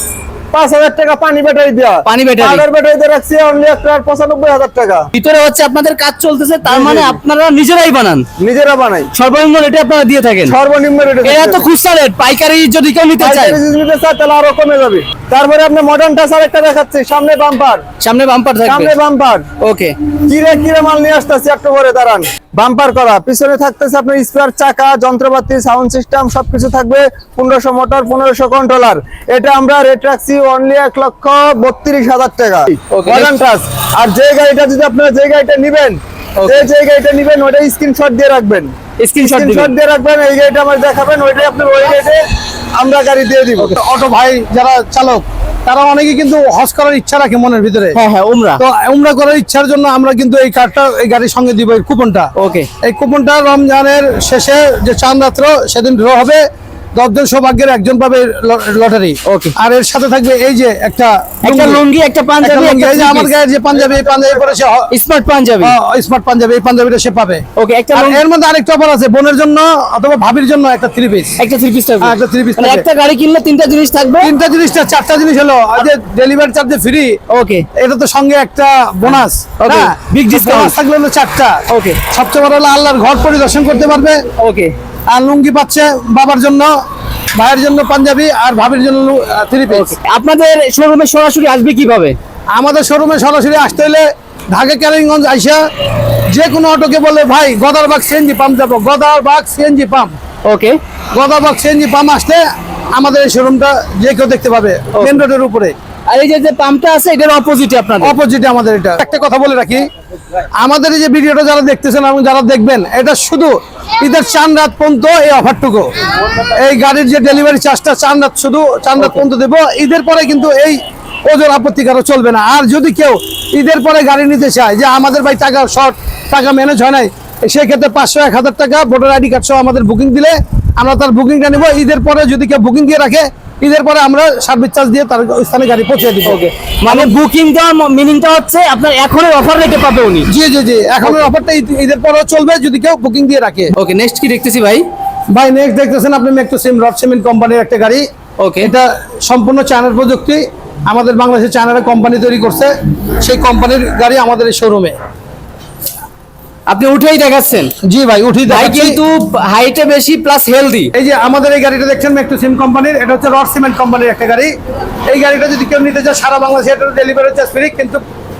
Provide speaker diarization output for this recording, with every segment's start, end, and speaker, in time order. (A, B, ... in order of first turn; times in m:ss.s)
0:00.5-0:05.1 A
0:02.0-0:02.6 B
0:05.1-0:08.3 B
0:06.7-0:07.2 A
0:08.4-0:09.1 A
0:09.1-0:10.6 B
0:10.5-0:11.7 A
0:11.2-0:13.6 B
0:13.2-0:17.8 A
0:18.0-0:18.9 B
0:18.6-0:19.5 A
0:19.6-0:20.0 B
0:20.3-0:42.2 A
0:32.9-0:33.4 B
0:36.4-0:36.7 B
0:39.0-0:39.7 B
0:42.8-0:43.8 A
0:43.6-0:48.0 C
0:48.0-0:48.6 B
0:48.6-0:52.3 C
0:52.4-0:52.7 B
0:52.8-0:56.4 C
0:57.0-1:01.8 C
0:59.2-0:59.5 B
1:01.4-1:03.3 B
1:02.4-1:04.9 C
1:04.9-1:05.7 B
1:05.6-1:11.4 C
1:07.6-1:08.2 B
1:11.4-1:14.3 B
1:12.0-1:12.8 C
1:14.2-1:17.2 C
1:17.3-1:17.7 B
1:17.8-1:24.2 C
1:19.6-1:20.8 B
1:21.7-1:22.0 B
1:24.4-1:24.7 B
1:25.1-1:26.7 C
1:27.3-1:30.0 C
1:29.7-1:32.2 B
1:32.5-1:35.6 C
1:36.3-1:40.2 C
1:40.4-1:40.8 B
1:41.1-1:45.8 C
1:46.1-1:48.2 B
1:48.0-1:49.9 C
1:50.6-1:55.9 C
1:56.5-2:17.1 C
2:16.2-2:20.3 B
2:20.3-2:23.7 C
2:23.7-2:24.8 B
2:25.3-2:28.1 C
2:28.4-2:28.7 B
2:28.6-2:35.0 C
2:36.7-2:37.7 B
2:37.8-2:39.0 C
2:38.5-2:40.9 B
2:40.9-2:44.5 C
2:45.1-2:48.0 C